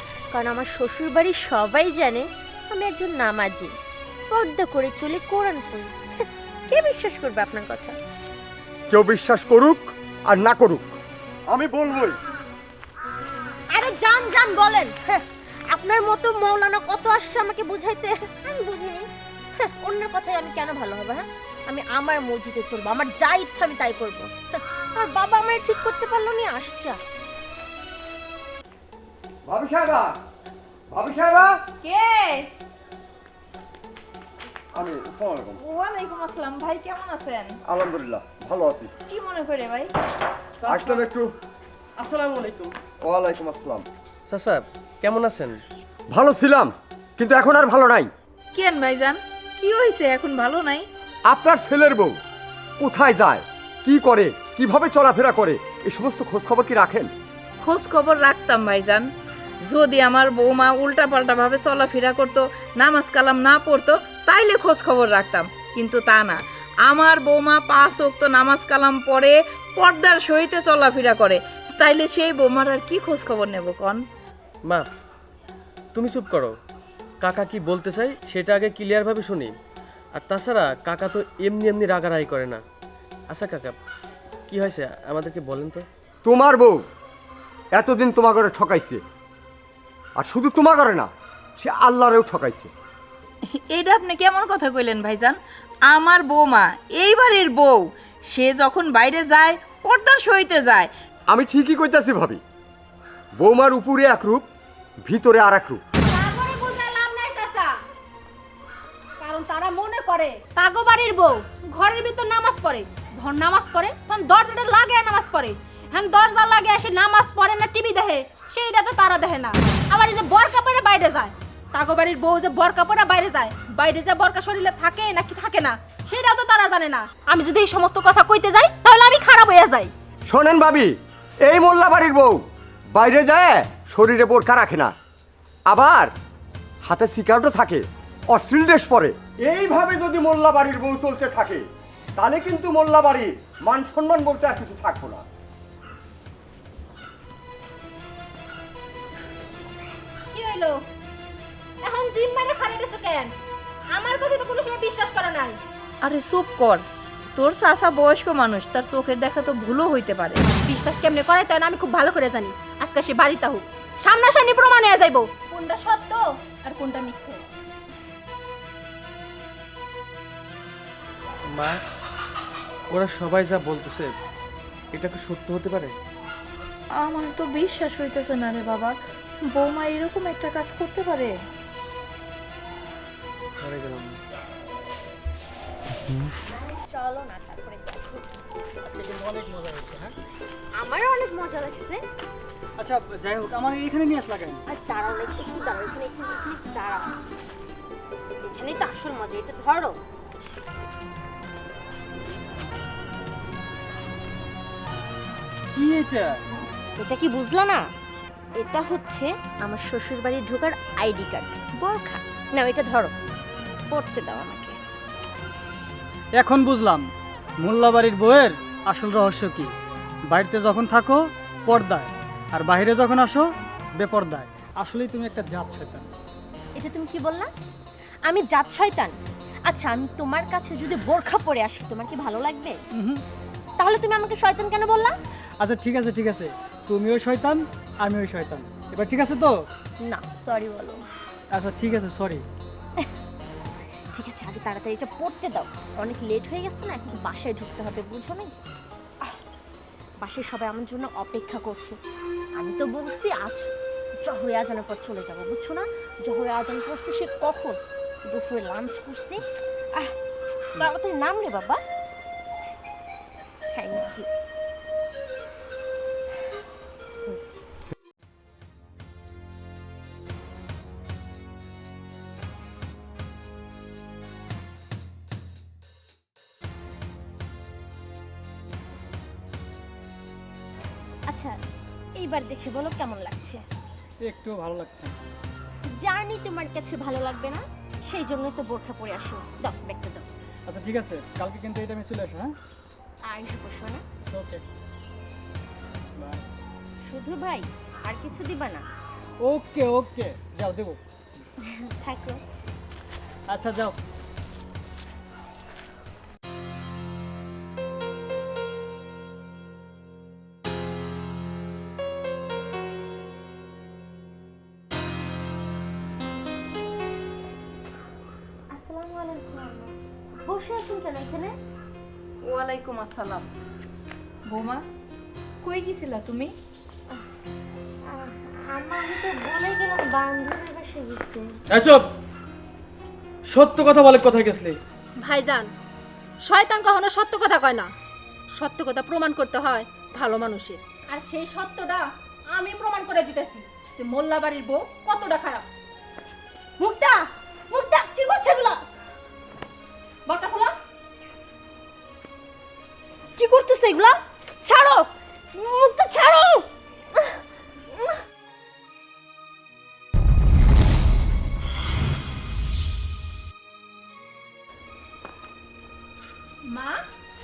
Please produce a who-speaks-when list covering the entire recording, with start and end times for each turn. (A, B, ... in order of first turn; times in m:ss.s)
0:00.3-0:03.7 A
0:04.3-0:08.0 A
0:08.9-0:11.0 B
0:11.5-0:12.2 B
0:13.7-0:19.1 A
0:19.6-0:27.0 A
0:29.5-0:30.2 B
0:30.9-0:31.6 B
0:31.8-0:32.5 C
0:34.7-0:35.6 B
0:35.6-0:37.5 C
0:37.7-0:38.9 B
0:39.1-0:39.9 C
0:40.6-0:41.1 D
0:40.7-0:41.3 B
0:42.0-0:42.8 D
0:43.0-0:43.8 B
0:44.3-0:45.6 D
0:46.1-0:48.1 B
0:48.5-0:50.9 C
0:51.3-0:52.2 B
0:52.8-0:57.1 B
0:57.6-0:59.0 C
0:59.6-1:14.0 C
1:16.0-1:16.5 D
1:17.2-1:19.5 D
1:20.2-1:22.6 D
1:23.3-1:23.8 D
1:24.5-1:25.8 D
1:26.2-1:26.8 B
1:27.8-1:29.0 B
1:30.2-1:31.1 B
1:31.6-1:32.7 B
1:33.7-1:35.4 C
1:35.9-1:40.9 C
1:41.3-1:42.4 B
1:43.4-1:44.5 B
1:45.0-1:45.8 B
1:46.0-1:47.8 E
1:49.2-2:09.9 E
2:10.3-2:10.9 B
2:11.4-2:12.4 B
2:13.0-2:14.9 B
2:15.7-2:16.1 B
2:16.8-2:21.6 B
2:22.2-2:25.2 B
2:30.3-2:30.8 E
2:31.8-2:33.3 E
2:33.9-2:35.6 E
2:36.0-2:36.8 C
2:37.4-2:40.4 C
2:40.6-2:47.4 E
2:51.5-2:51.8 D
2:52.9-2:54.1 D
2:54.9-2:56.0 D
2:57.0-2:59.0 C
2:59.5-3:01.3 C
3:03.6-3:04.1 D
3:06.5-3:08.4 A
3:08.8-3:10.1 F
3:10.8-3:12.0 A
3:12.8-3:14.6 F
3:14.7-3:17.1 A
3:18.4-3:20.0 A
3:25.8-3:26.3 F
3:27.0-3:27.8 A
3:28.6-3:33.1 A
3:33.9-3:34.8 A
3:36.4-3:37.0 F
3:37.6-3:39.7 F
3:40.3-3:43.5 F
3:44.0-3:46.1 F
3:46.8-3:47.5 A
3:48.3-3:49.1 A
3:49.7-3:52.8 A
3:53.0-3:53.2 F
3:53.8-3:55.2 A
3:55.6-3:59.6 F
4:00.0-4:01.0 A
4:01.5-4:02.4 F
4:04.1-4:08.6 A
4:10.2-4:12.0 A
4:12.6-4:13.7 A
4:14.2-4:19.4 A
4:20.8-4:21.8 A
4:23.7-4:24.3 A
4:42.2-4:43.6 A
4:44.3-4:45.1 F
4:46.0-4:50.3 A
4:50.7-4:52.5 F
4:53.3-4:54.0 A
4:54.3-4:54.6 F
4:57.0-4:58.9 A
4:59.4-5:01.0 F
5:01.6-5:02.4 A
5:03.5-5:04.0 F
5:18.7-5:21.6 A
5:22.4-5:23.5 C
5:24.5-5:24.8 C
5:25.6-5:26.5 C
5:28.1-5:31.6 A
5:31.7-5:32.1 D
5:33.5-5:34.8 D
5:35.2-5:35.7 E
5:36.4-5:37.9 E
5:38.6-5:45.6 E
5:46.8-5:48.8 A
5:50.3-5:50.7 E
5:53.4-5:56.6 A
6:06.7-6:07.0 E